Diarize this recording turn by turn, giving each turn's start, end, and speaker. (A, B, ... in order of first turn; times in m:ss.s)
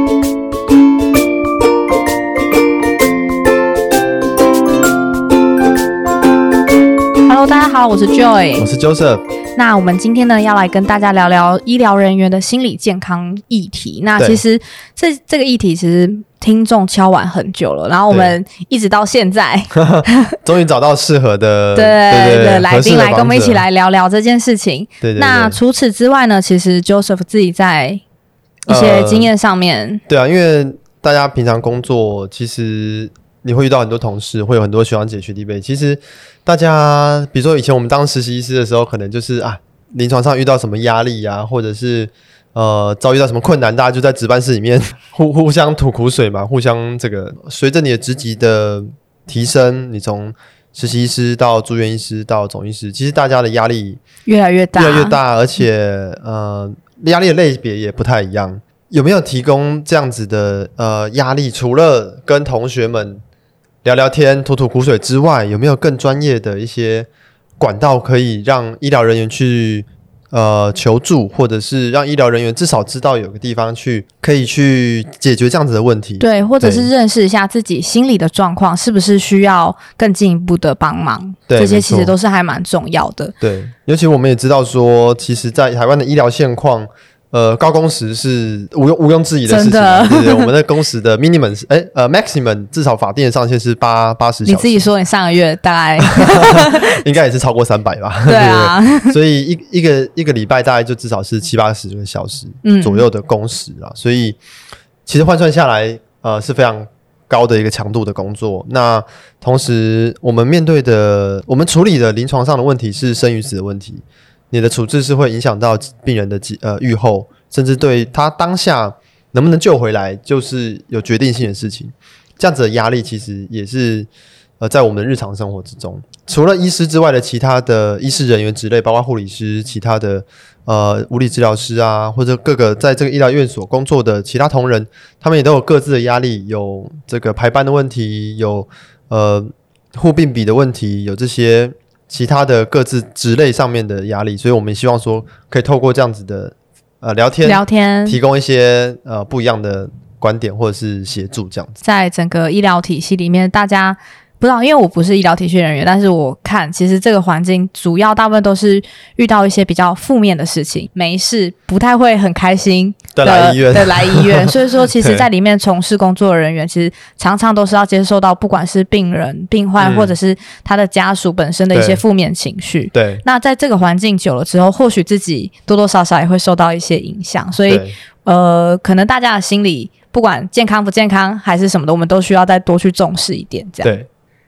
0:07.2-0:08.7 A
0:08.6-0:09.2 B
0:09.6-0:20.3 A
0:18.1-0:18.4 B
0:19.7-0:23.6 B
0:21.8-0:28.0 A
0:25.0-0:25.6 B
0:28.7-0:29.3 B
0:28.7-0:30.0 A
0:30.1-0:54.0 B
0:54.2-0:55.2 A
0:54.7-1:03.2 B
1:03.8-1:07.1 B
1:07.6-1:16.9 B
1:16.2-1:23.3 A
1:21.5-1:22.1 B
1:23.4-1:34.8 B
1:29.5-1:30.5 A
1:34.4-1:36.9 A
1:36.0-1:44.4 B
1:38.2-1:39.2 A
1:42.6-1:43.1 A
1:45.0-2:04.1 B
2:04.6-2:31.8 B
2:27.4-2:28.2 A
2:31.8-3:03.9 A
2:43.2-2:45.3 B
2:49.8-2:50.1 B
2:51.7-2:52.0 B
2:52.9-2:53.2 B
2:57.7-2:57.9 B
3:03.8-3:04.1 B